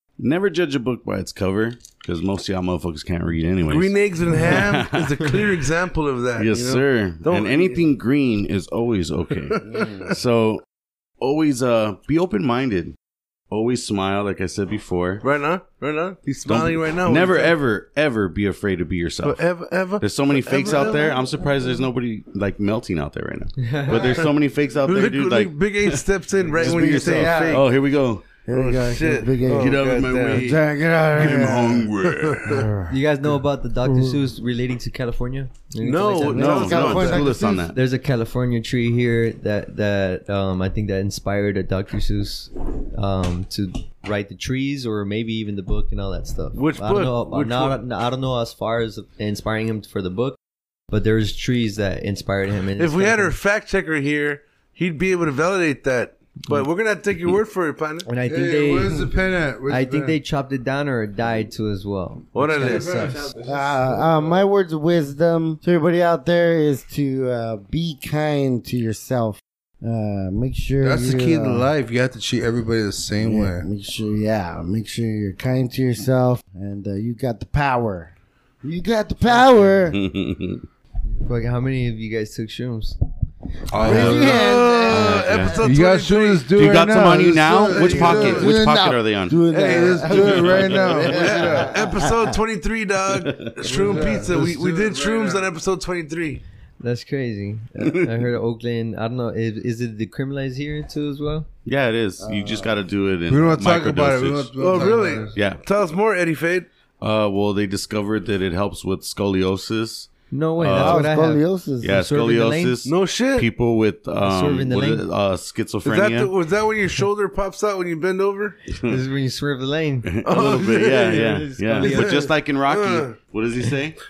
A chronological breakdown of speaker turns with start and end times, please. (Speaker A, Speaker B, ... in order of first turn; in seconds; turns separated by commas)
Speaker A: 0.2-5.6, Speaker B: 3.7-7.8, Speaker A: 6.4-10.6, Speaker B: 9.5-10.0, Speaker C: 9.7-10.0, Speaker A: 11.2-12.9, Speaker A: 13.5-15.2, Speaker B: 15.2-17.6, Speaker A: 16.4-19.4, Speaker B: 19.2-21.1, Speaker A: 20.0-28.4, Speaker D: 23.6-24.2, Speaker B: 24.8-27.6, Speaker C: 26.6-27.6, Speaker C: 28.4-31.9, Speaker B: 28.5-30.6, Speaker A: 29.5-32.7, Speaker B: 32.1-32.5, Speaker C: 32.4-32.9, Speaker D: 32.9-36.7, Speaker C: 33.9-34.2, Speaker B: 35.8-37.3, Speaker C: 36.3-37.7, Speaker A: 36.4-37.8, Speaker D: 37.7-50.4, Speaker B: 46.5-47.8, Speaker D: 50.9-53.4, Speaker B: 52.8-58.1, Speaker D: 58.0-59.1, Speaker E: 58.2-60.2, Speaker D: 59.6-63.2, Speaker B: 62.3-63.2, Speaker E: 62.6-64.2, Speaker C: 63.4-71.7, Speaker E: 70.8-73.7, Speaker C: 73.2-80.0, Speaker A: 79.9-80.7, Speaker D: 81.2-83.0, Speaker E: 83.7-84.6, Speaker C: 83.8-85.6, Speaker A: 83.8-84.3, Speaker B: 83.9-86.5, Speaker A: 84.9-85.6, Speaker E: 85.6-88.6, Speaker A: 86.5-91.0, Speaker B: 87.7-88.5, Speaker C: 87.7-92.3, Speaker B: 89.5-90.4, Speaker E: 89.6-91.7, Speaker B: 91.0-96.4, Speaker A: 93.1-93.8, Speaker E: 93.6-95.5, Speaker D: 96.8-101.5, Speaker A: 101.6-104.5, Speaker C: 102.2-102.7, Speaker E: 103.3-105.3, Speaker B: 104.6-106.7, Speaker D: 104.7-105.4, Speaker A: 105.3-105.6, Speaker A: 107.0-111.1, Speaker D: 110.3-112.8, Speaker C: 110.7-112.0, Speaker A: 111.8-116.3, Speaker B: 112.8-113.5, Speaker D: 114.2-115.0, Speaker B: 115.8-118.6, Speaker A: 118.7-119.0, Speaker D: 118.9-122.3, Speaker A: 120.0-124.0, Speaker B: 120.3-123.2